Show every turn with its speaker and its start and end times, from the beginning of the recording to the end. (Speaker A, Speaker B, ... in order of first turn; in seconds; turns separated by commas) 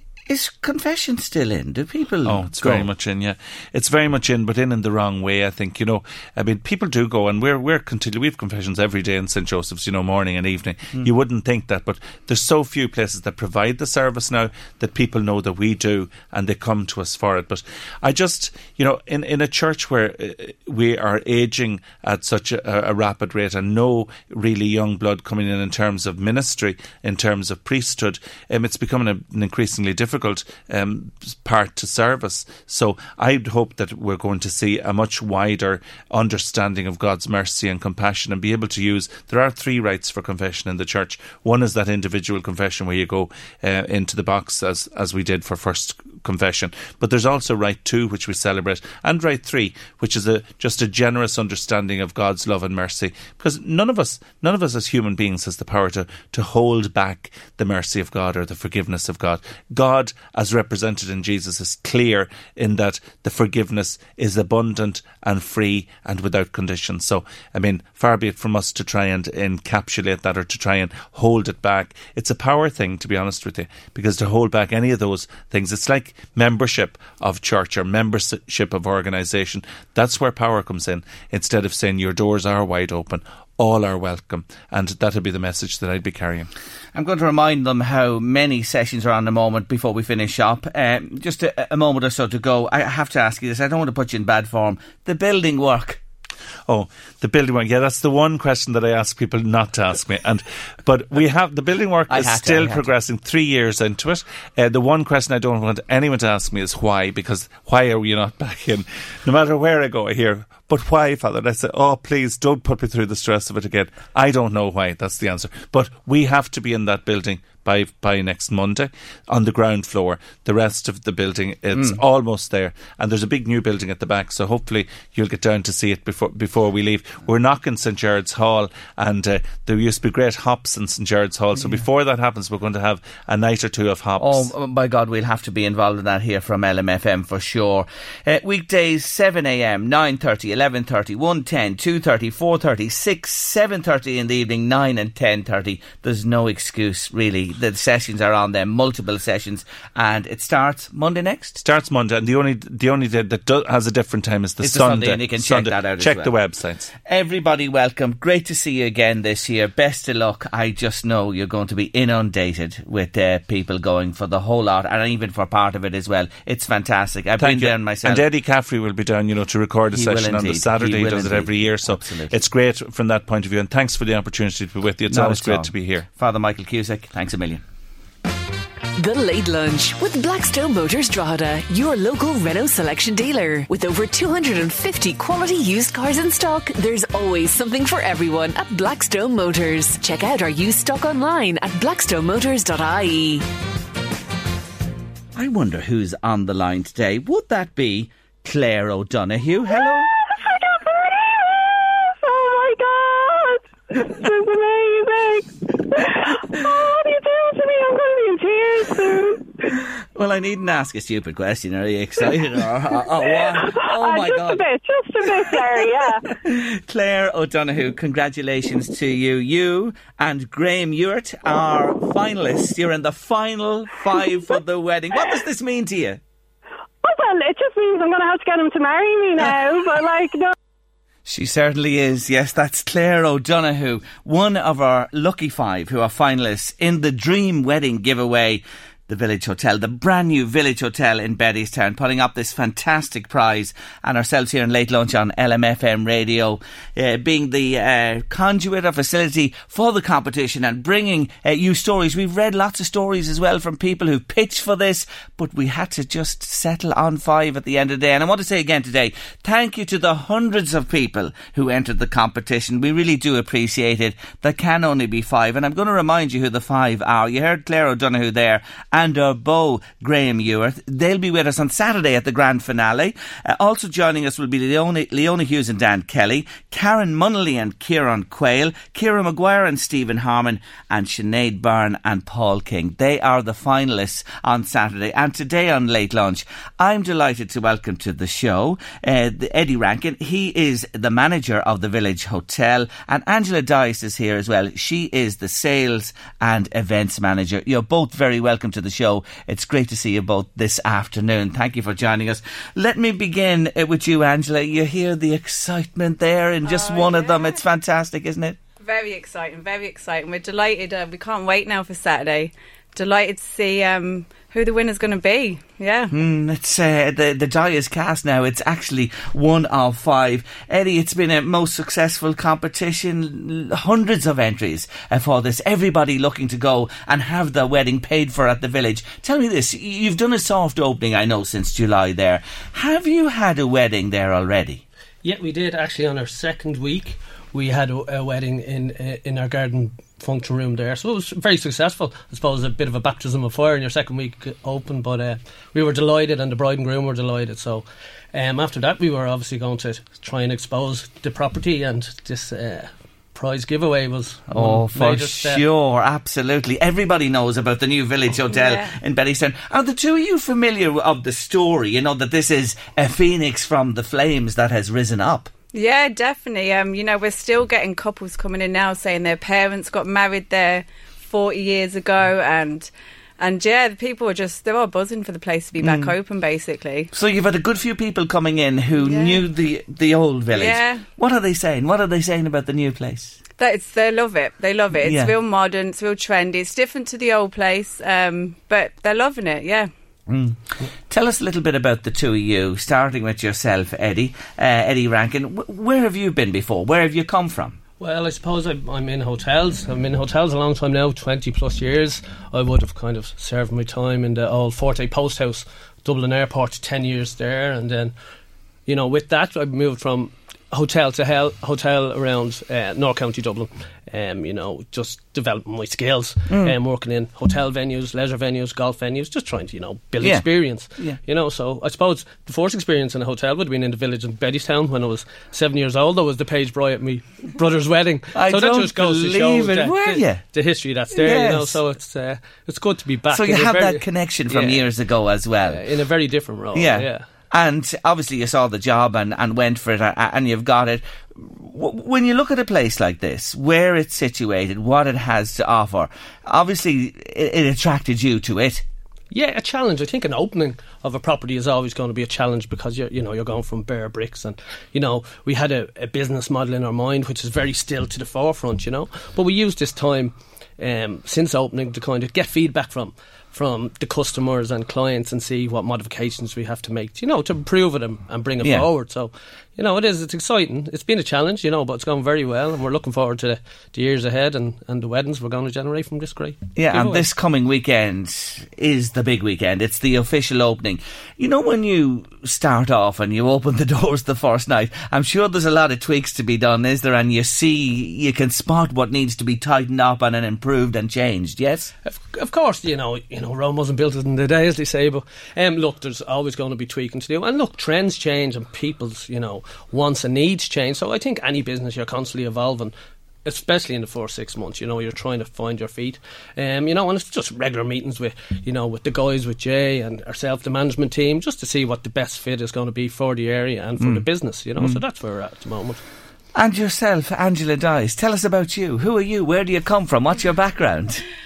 Speaker A: 0.3-2.9, Speaker B: 2.2-86.5, Speaker A: 86.9-96.0, Speaker B: 96.7-134.5, Speaker A: 102.1-102.9, Speaker A: 134.2-151.6, Speaker B: 151.6-156.9, Speaker A: 154.6-156.3, Speaker A: 157.0-168.2, Speaker B: 167.4-176.1, Speaker A: 169.9-172.3, Speaker A: 175.1-177.6, Speaker C: 179.0-193.4, Speaker A: 195.3-200.1, Speaker D: 199.7-209.8, Speaker A: 210.1-214.6, Speaker D: 213.1-216.2, Speaker A: 215.2-226.2, Speaker D: 227.0-230.5, Speaker A: 231.2-308.6, Speaker E: 306.6-307.6, Speaker E: 308.8-316.1, Speaker A: 316.1-334.8, Speaker F: 335.2-355.6, Speaker A: 354.5-365.5, Speaker E: 358.5-358.9, Speaker E: 365.7-377.1, Speaker A: 375.8-376.1, Speaker A: 377.1-383.4, Speaker E: 379.0-379.4, Speaker E: 380.5-381.1, Speaker E: 383.6-389.9, Speaker A: 385.0-385.3, Speaker A: 390.3-397.8, Speaker F: 398.0-408.1, Speaker F: 408.9-434.9, Speaker A: 416.5-416.7, Speaker A: 420.2-421.2, Speaker A: 428.3-430.4, Speaker A: 431.1-431.8, Speaker A: 433.3-435.8, Speaker F: 435.6-437.2, Speaker A: 436.7-448.8, Speaker F: 449.3-477.3, Speaker A: 468.6-468.9, Speaker A: 476.8-491.9, Speaker F: 492.0-502.9, Speaker F: 503.4-516.0, Speaker A: 514.0-515.0, Speaker A: 516.5-521.2